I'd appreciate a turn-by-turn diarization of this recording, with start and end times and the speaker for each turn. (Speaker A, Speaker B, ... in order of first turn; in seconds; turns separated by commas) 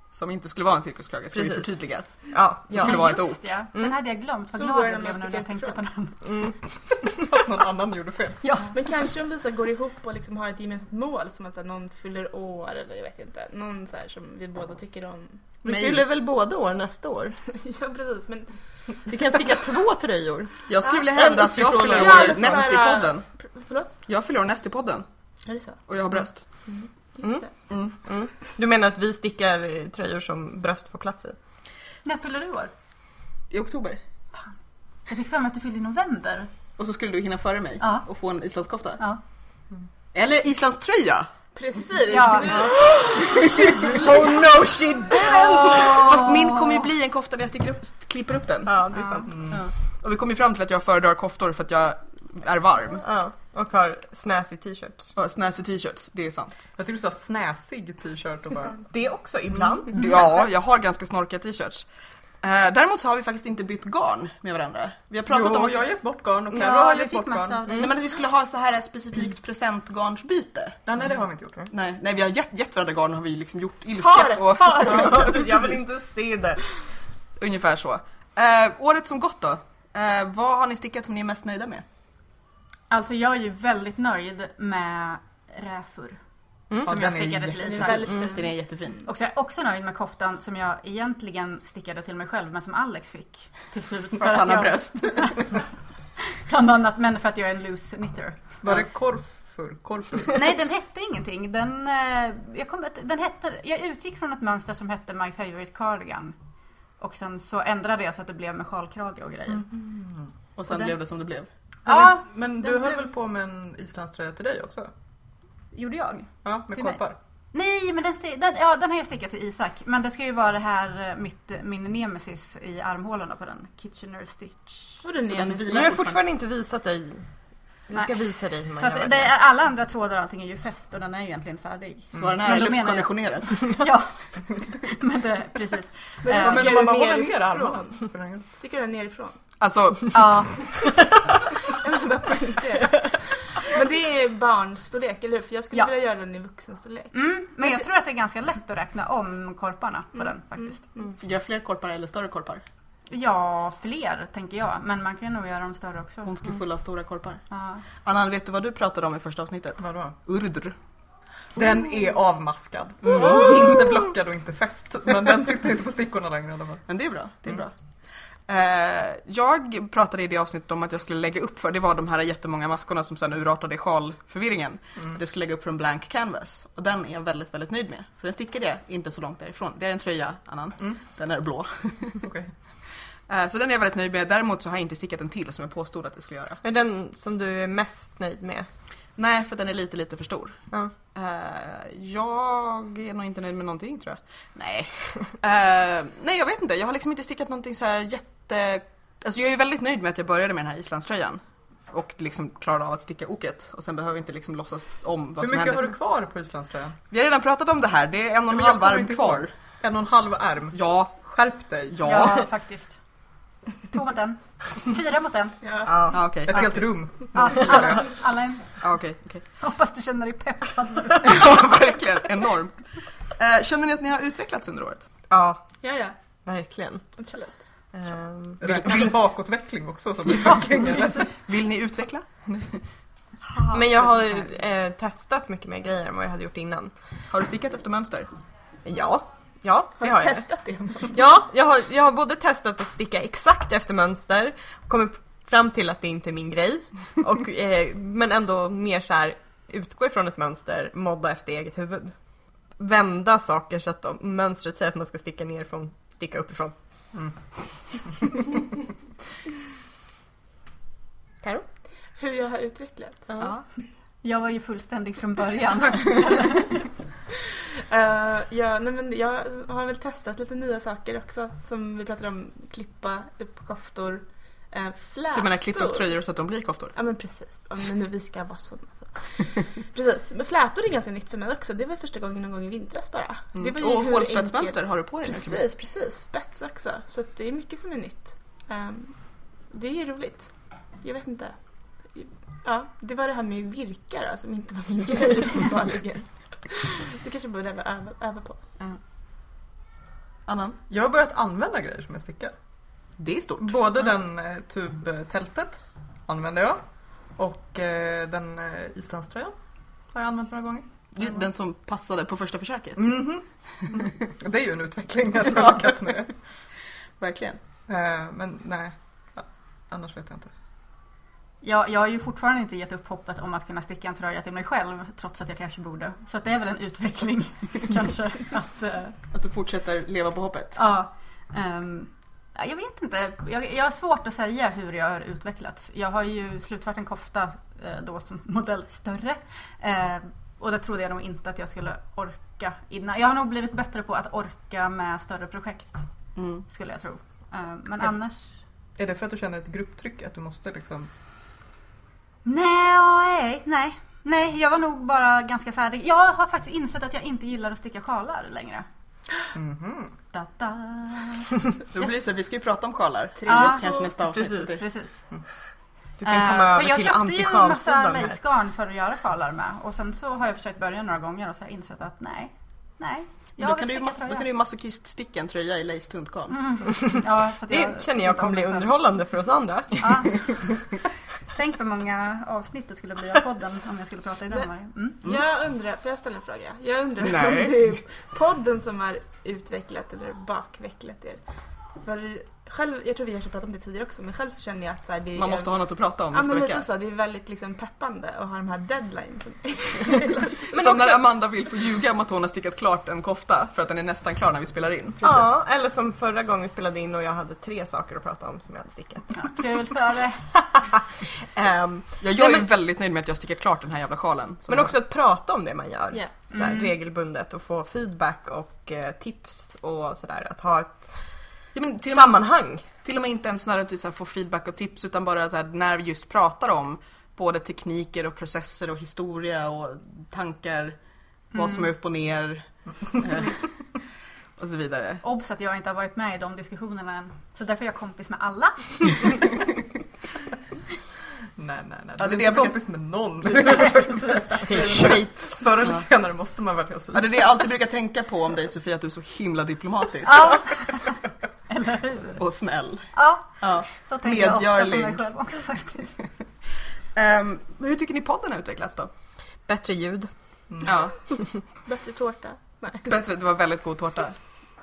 Speaker A: 0.1-2.1, Speaker B: 1.3-1.7, Speaker B: 2.3-3.0, Speaker A: 2.7-3.4, Speaker C: 2.8-6.5, Speaker D: 4.5-5.8, Speaker E: 7.1-8.5, Speaker C: 8.4-8.7, Speaker D: 8.7-15.6, Speaker B: 15.6-17.4, Speaker D: 17.5-18.5, Speaker B: 19.1-22.7, Speaker A: 20.7-23.2, Speaker D: 21.9-24.0, Speaker A: 24.1-25.1, Speaker D: 25.4-25.8, Speaker A: 25.9-26.4, Speaker D: 26.7-27.5, Speaker A: 27.7-27.9, Speaker B: 28.0-31.4, Speaker C: 32.0-32.7, Speaker A: 33.5-34.0, Speaker C: 35.1-36.5, Speaker A: 36.8-39.0, Speaker C: 37.8-38.0, Speaker A: 40.1-41.3, Speaker D: 41.5-44.0, Speaker C: 42.1-42.7, Speaker A: 43.1-43.7, Speaker B: 43.5-46.0, Speaker A: 45.5-48.8, Speaker C: 45.9-46.8, Speaker B: 48.6-49.3, Speaker E: 49.3-49.6, Speaker A: 50.0-53.0, Speaker B: 53.0-55.1, Speaker A: 55.1-56.6, Speaker E: 56.8-58.8, Speaker B: 58.9-60.0, Speaker A: 59.9-61.9, Speaker A: 62.4-65.9, Speaker E: 65.3-67.6, Speaker C: 66.5-67.9, Speaker A: 67.7-70.8, Speaker E: 70.8-71.7, Speaker A: 71.7-75.6, Speaker D: 74.1-75.2, Speaker B: 74.6-76.6, Speaker A: 77.4-81.8, Speaker C: 82.9-86.2, Speaker E: 86.8-88.0, Speaker C: 86.8-88.3, Speaker D: 87.6-88.9, Speaker A: 88.3-89.0, Speaker C: 89.0-95.6, Speaker A: 94.2-95.4, Speaker C: 96.3-98.5, Speaker E: 98.6-100.5, Speaker C: 100.3-106.3, Speaker C: 107.0-109.7, Speaker E: 109.5-110.3, Speaker A: 110.6-111.5, Speaker E: 111.8-114.9, Speaker C: 111.9-112.8, Speaker C: 115.7-125.0, Speaker E: 116.4-117.2, Speaker D: 125.0-125.9, Speaker A: 125.3-126.2, Speaker B: 125.4-127.2, Speaker B: 127.9-129.3, Speaker C: 127.9-128.2, Speaker C: 128.7-136.7, Speaker A: 132.1-133.7, Speaker E: 132.1-132.4, Speaker D: 136.2-139.4, Speaker E: 136.3-138.4, Speaker A: 139.6-140.6, Speaker C: 140.1-140.6, Speaker D: 141.7-147.1, Speaker C: 147.1-150.8, Speaker D: 150.2-151.1, Speaker A: 151.2-152.6, Speaker C: 153.1-156.3, Speaker A: 156.2-157.4, Speaker C: 157.5-157.8, Speaker A: 158.0-160.8, Speaker E: 159.8-160.2, Speaker E: 161.6-166.8, Speaker A: 163.1-163.4, Speaker A: 166.9-167.7, Speaker A: 168.5-182.2, Speaker E: 182.2-182.5, Speaker A: 183.3-186.6, Speaker B: 186.6-188.7, Speaker A: 189.2-190.6, Speaker A: 191.1-205.9, Speaker E: 205.4-207.0, Speaker A: 207.1-209.5, Speaker E: 208.5-212.3, Speaker A: 210.7-211.3, Speaker A: 211.9-212.4, Speaker C: 212.0-213.0, Speaker C: 213.8-215.6, Speaker D: 215.6-216.1, Speaker B: 215.9-216.1, Speaker A: 216.1-216.8, Speaker E: 216.4-218.0, Speaker C: 217.3-218.7, Speaker A: 218.8-219.4, Speaker C: 219.6-221.7, Speaker A: 221.2-222.8, Speaker A: 223.3-225.1, Speaker B: 225.3-225.6, Speaker D: 225.8-226.2, Speaker B: 226.4-227.0, Speaker D: 227.2-227.6, Speaker B: 227.9-228.9, Speaker E: 228.6-231.3, Speaker A: 231.4-232.8, Speaker A: 233.4-234.1, Speaker B: 233.7-236.9, Speaker A: 237.3-238.3, Speaker B: 238.8-240.5, Speaker D: 240.0-241.2, Speaker B: 241.1-252.1, Speaker B: 252.8-256.8, Speaker D: 262.2-263.3, Speaker C: 264.2-266.9, Speaker D: 267.7-276.1, Speaker A: 275.3-277.0, Speaker D: 276.9-291.6, Speaker A: 283.5-285.6, Speaker D: 292.1-298.6, Speaker A: 300.5-300.8, Speaker E: 300.9-302.5, Speaker A: 303.2-303.8, Speaker E: 303.6-306.8, Speaker E: 307.4-309.5, Speaker E: 310.1-310.9, Speaker A: 311.1-313.2, Speaker E: 312.9-316.3, Speaker A: 317.2-317.6, Speaker E: 317.9-320.5, Speaker C: 321.6-329.1, Speaker A: 329.3-330.8, Speaker C: 330.8-346.0, Speaker A: 346.4-346.6, Speaker C: 346.7-348.4, Speaker E: 349.0-351.1, Speaker C: 352.4-358.9, Speaker E: 359.5-360.1, Speaker C: 360.3-361.6, Speaker A: 361.9-364.8, Speaker D: 363.4-364.1, Speaker C: 363.5-365.1, Speaker B: 364.3-364.7, Speaker B: 366.2-368.4, Speaker C: 366.2-374.4, Speaker A: 373.6-376.6, Speaker C: 376.5-378.9, Speaker B: 377.7-380.0, Speaker C: 380.0-380.4, Speaker C: 381.5-385.2, Speaker D: 385.2-391.4, Speaker A: 387.2-387.9, Speaker D: 392.0-400.7, Speaker A: 395.4-396.9, Speaker B: 400.7-401.2, Speaker A: 400.7-405.3, Speaker B: 405.2-409.4, Speaker C: 409.3-410.4, Speaker B: 410.5-412.6, Speaker A: 412.2-414.9, Speaker B: 414.7-421.1, Speaker C: 416.5-416.9, Speaker A: 421.7-431.0, Speaker B: 422.1-422.8, Speaker A: 431.5-433.6, Speaker C: 431.5-431.9, Speaker A: 434.6-435.2, Speaker C: 435.2-439.4, Speaker E: 441.6-447.4, Speaker A: 442.2-442.8, Speaker C: 443.6-444.6, Speaker B: 444.6-445.6, Speaker A: 447.1-450.6, Speaker C: 450.2-451.1, Speaker C: 451.7-452.4, Speaker A: 452.4-453.1, Speaker C: 453.1-456.1, Speaker A: 453.6-455.2, Speaker A: 457.1-459.1, Speaker B: 459.6-460.3, Speaker E: 460.7-461.0, Speaker A: 460.8-461.1, Speaker D: 461.8-463.1, Speaker A: 463.0-464.4